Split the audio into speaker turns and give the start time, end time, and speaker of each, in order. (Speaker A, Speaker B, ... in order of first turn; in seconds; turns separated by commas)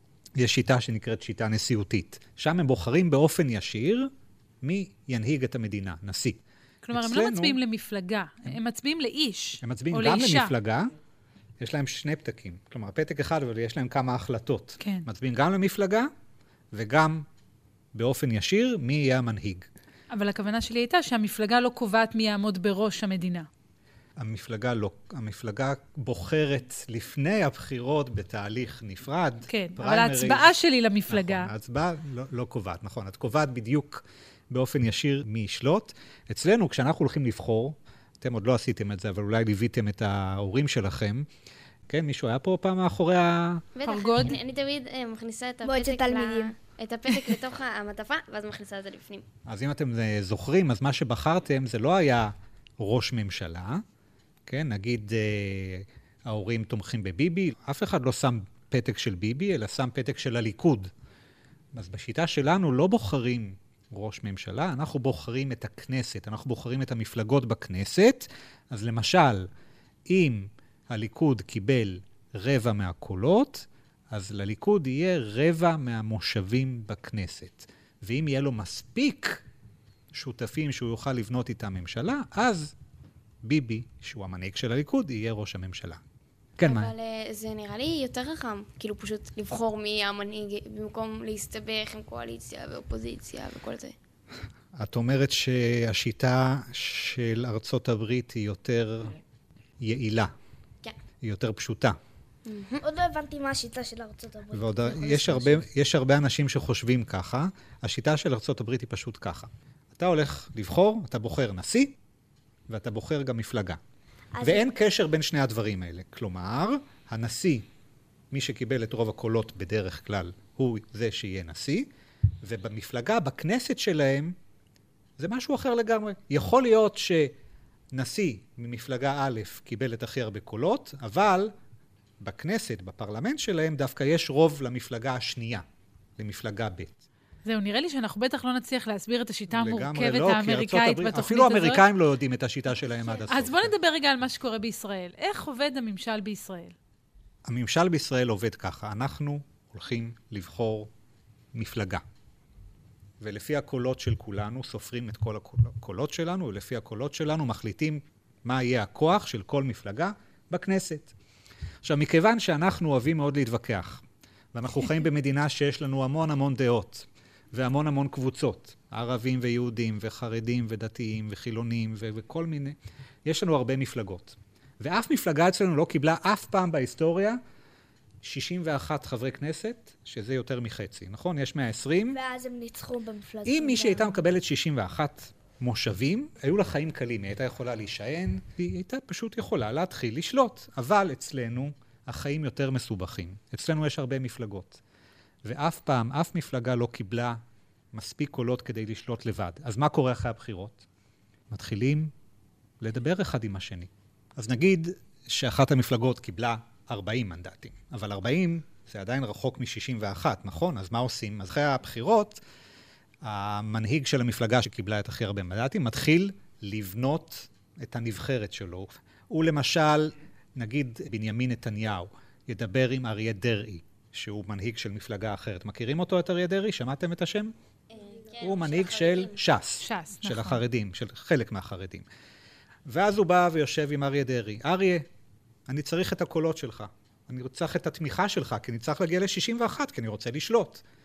Speaker A: 0.3-7.6, Speaker B: 6.8-10.5, Speaker A: 9.6-10.9, Speaker A: 11.6-16.1, Speaker B: 14.8-15.1, Speaker A: 16.7-17.2, Speaker A: 17.9-19.7, Speaker B: 20.1-23.5, Speaker A: 24.2-30.5, Speaker B: 29.5-31.5, Speaker A: 31.1-41.3, Speaker A: 41.9-43.6, Speaker C: 43.8-49.2, Speaker B: 43.9-44.4, Speaker D: 45.6-46.5, Speaker A: 49.5-53.8, Speaker A: 54.5-60.9, Speaker A: 61.7-69.5, Speaker A: 70.1-79.4, Speaker A: 80.1-82.7, Speaker A: 83.4-86.0, Speaker A: 86.6-86.9, Speaker C: 86.6-93.9, Speaker A: 94.7-99.2, Speaker A: 99.8-100.3, Speaker A: 101.2-102.0, Speaker C: 102.5-102.8, Speaker D: 102.8-105.6, Speaker A: 104.5-111.9, Speaker A: 112.7-113.8, Speaker D: 114.3-114.7, Speaker A: 114.4-117.7, Speaker A: 118.3-121.9, Speaker A: 122.4-124.3, Speaker A: 125.2-127.3, Speaker A: 127.9-131.5, Speaker A: 132.2-135.6, Speaker A: 136.2-137.0, Speaker B: 137.4-141.8, Speaker A: 139.5-143.7, Speaker B: 143.3-146.7, Speaker A: 147.4-150.9, Speaker A: 151.5-152.0, Speaker A: 153.2-161.1, Speaker A: 161.8-177.4, Speaker A: 178.2-182.2, Speaker D: 182.1-184.2, Speaker A: 183.4-194.8, Speaker A: 195.4-197.4, Speaker A: 197.9-200.8, Speaker A: 201.5-202.1, Speaker A: 202.8-212.4, Speaker A: 213.2-227.5, Speaker C: 227.9-229.4, Speaker A: 228.4-232.1, Speaker B: 229.8-230.6, Speaker A: 232.8-235.1, Speaker A: 235.7-240.8